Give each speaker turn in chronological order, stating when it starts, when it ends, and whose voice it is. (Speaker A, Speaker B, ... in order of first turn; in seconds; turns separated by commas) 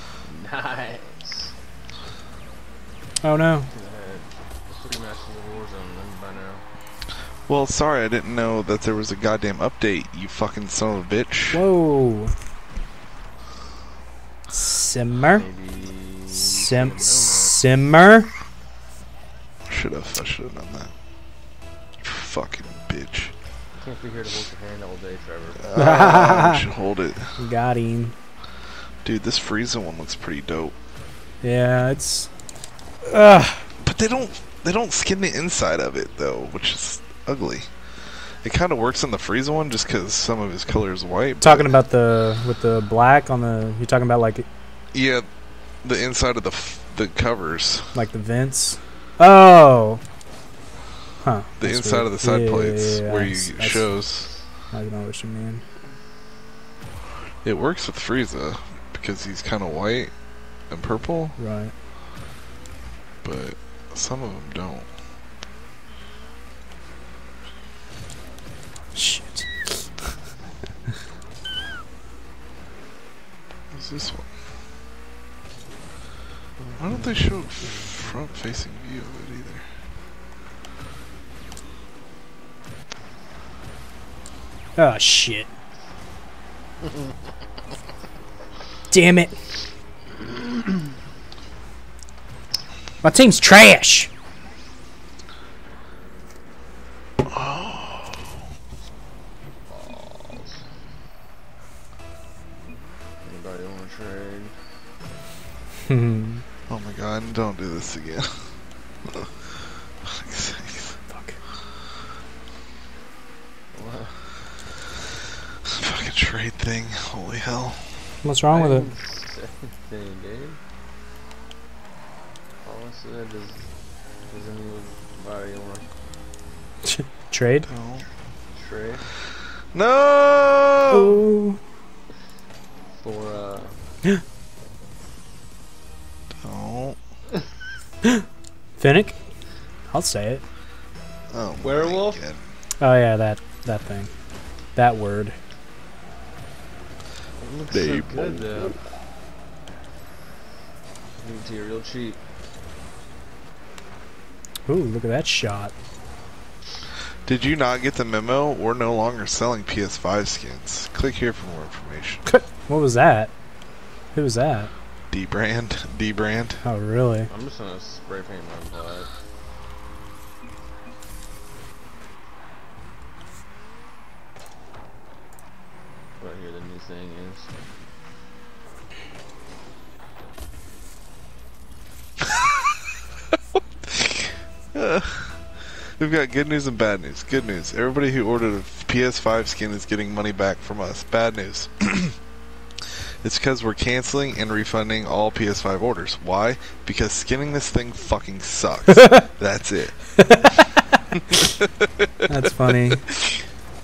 Speaker A: 0.2-1.5, Speaker B: 3.2-3.7, Speaker A: 3.7-6.6, Speaker C: 7.5-11.6, Speaker B: 11.5-12.3, Speaker B: 14.5-15.5, Speaker A: 15.3-17.6, Speaker B: 16.3-18.3, Speaker C: 19.7-20.9, Speaker C: 22.0-23.3, Speaker A: 23.8-26.2, Speaker C: 25.6-27.3, Speaker B: 25.7-26.6, Speaker B: 27.4-28.1, Speaker C: 29.0-30.7, Speaker B: 31.4-32.3, Speaker B: 33.0-33.6, Speaker C: 33.8-37.7, Speaker C: 38.2-41.7, Speaker B: 41.4-44.5, Speaker C: 44.9-45.3, Speaker C: 45.8-47.9, Speaker B: 47.9-50.0, Speaker B: 51.2-53.9, Speaker C: 51.6-54.3, Speaker B: 54.7-55.6, Speaker C: 57.4-60.1, Speaker C: 60.7-61.4, Speaker B: 61.4-61.7, Speaker C: 63.2-64.9, Speaker B: 68.9-70.1, Speaker C: 73.7-74.3, Speaker A: 76.6-77.1, Speaker C: 76.8-79.7, Speaker A: 77.6-78.0, Speaker B: 84.8-85.5, Speaker B: 88.9-89.3, Speaker B: 93.0-94.1, Speaker C: 97.2-98.3, Speaker A: 99.7-100.6, Speaker A: 103.2-104.6, Speaker B: 105.9-106.4, Speaker C: 106.7-108.5, Speaker C: 109.0-109.5, Speaker C: 110.0-111.0, Speaker B: 111.1-111.4, Speaker A: 113.7-114.1, Speaker C: 115.6-118.0, Speaker B: 118.2-118.9, Speaker A: 118.5-120.6, Speaker A: 122.6-123.7, Speaker A: 124.3-125.8, Speaker B: 126.8-127.7, Speaker C: 127.7-128.0, Speaker A: 128.5-129.0, Speaker C: 129.7-131.2, Speaker B: 130.9-131.6, Speaker A: 133.0-133.8, Speaker C: 136.4-137.0, Speaker B: 138.8-139.2, Speaker B: 139.9-140.4, Speaker C: 141.3-142.4, Speaker A: 141.6-142.2, Speaker B: 142.8-144.1, Speaker B: 144.7-145.3, Speaker A: 147.4-148.8, Speaker C: 147.7-148.6, Speaker A: 151.2-152.2, Speaker B: 154.7-155.7, Speaker C: 157.2-162.3, Speaker B: 162.3-163.3, Speaker B: 164.1-164.7, Speaker C: 165.1-166.6, Speaker B: 166.6-167.3, Speaker A: 167.3-169.1, Speaker A: 176.2-177.5, Speaker C: 183.8-192.1, Speaker C: 192.9-199.9, Speaker B: 198.9-199.2, Speaker B: 200.2-201.0, Speaker C: 201.1-203.2, Speaker B: 202.3-203.0